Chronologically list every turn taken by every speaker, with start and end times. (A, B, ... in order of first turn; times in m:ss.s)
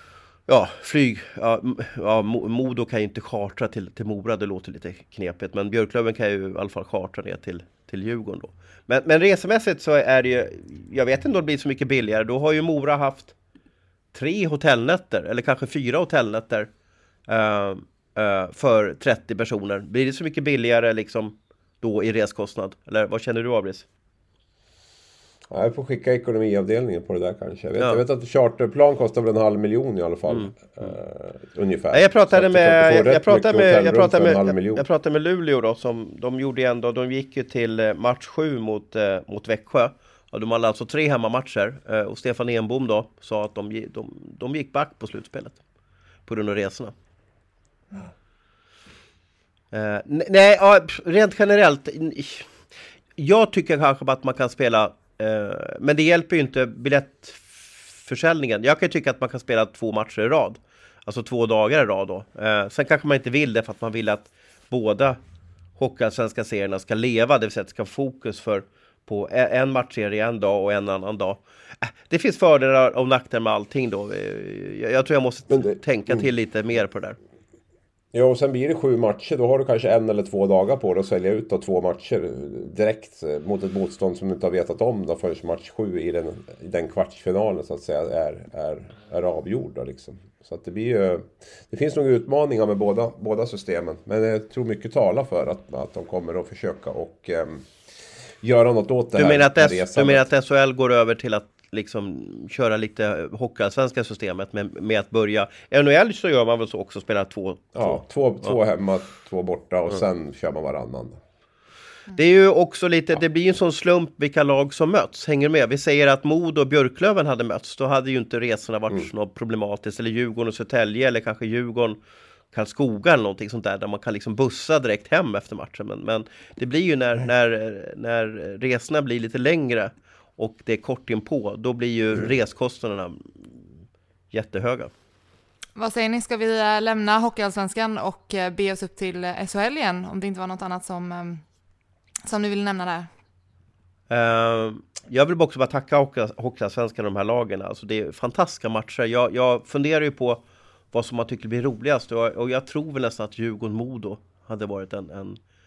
0:00.5-0:13.3 A
0:14.1-0:16.7 A
0:17.3-0:23.9 A
0:25.5-0:34.8 B
0:31.9-0:45.6 A
0:46.2-0:46.9 A
0:49.7-0:52.5 A
0:53.2-1:05.2 A
1:05.8-1:17.2 A
1:15.5-1:16.2 B
1:18.1-1:37.7 B
1:38.4-1:40.3 B
1:39.2-1:48.6 A
1:47.7-1:51.2 B
1:52.1-2:02.0 A
2:02.5-2:13.5 A
2:14.3-2:14.9 A
2:15.8-2:21.4 C
2:22.2-2:23.1 C
2:24.1-2:35.4 A